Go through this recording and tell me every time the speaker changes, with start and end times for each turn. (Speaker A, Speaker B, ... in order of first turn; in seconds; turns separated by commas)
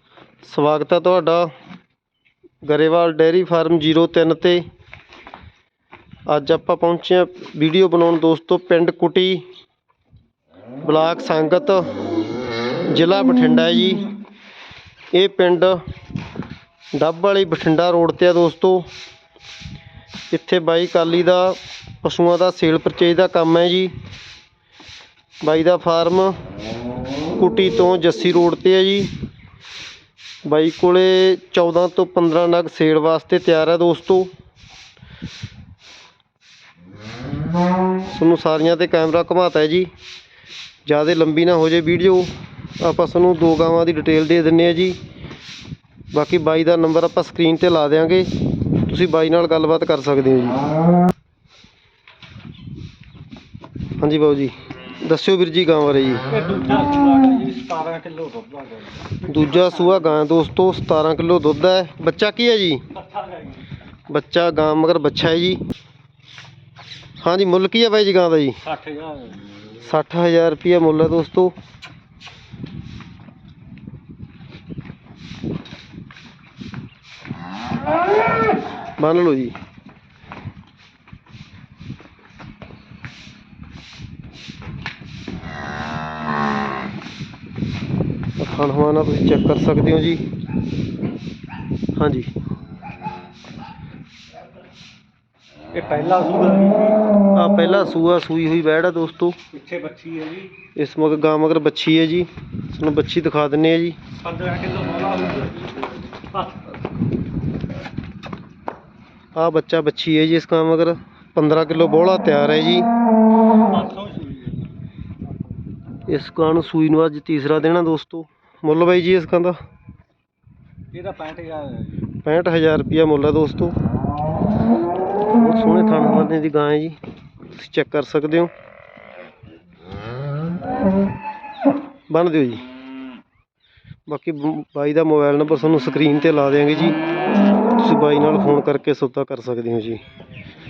Speaker A: 0.4-1.5, Speaker A: 2.6-4.6, Speaker A: 6.3-9.4, Speaker A: 10.8-11.9, Speaker A: 12.9-14.1, Speaker A: 15.1-15.8, Speaker A: 16.9-18.9, Speaker A: 20.3-23.9, Speaker A: 25.4-26.4, Speaker A: 27.4-29.1, Speaker A: 30.4-34.3, Speaker A: 38.1-39.9, Speaker A: 40.9-45.0, Speaker A: 46.1-48.3, Speaker A: 48.9-50.6, Speaker A: 54.0-56.2, Speaker B: 56.3-60.1, Speaker A: 59.3-62.8, Speaker B: 62.9-63.6, Speaker A: 64.1-65.6, Speaker A: 67.2-68.6, Speaker B: 68.6-69.4, Speaker A: 69.8-71.5, Speaker A: 79.0-79.5, Speaker A: 88.4-90.2, Speaker A: 92.0-92.3, Speaker B: 95.7-97.0, Speaker A: 97.3-99.4, Speaker B: 99.5-100.5, Speaker A: 100.8-104.0, Speaker B: 104.2-106.7, Speaker A: 109.3-112.9, Speaker B: 113.6-114.7, Speaker A: 116.1-119.6, Speaker B: 120.9-122.0, Speaker A: 122.2-123.8, Speaker A: 125.3-127.0, Speaker A: 127.5-128.5, Speaker A: 132.1-132.6, Speaker A: 134.1-137.0, Speaker A: 137.8-140.0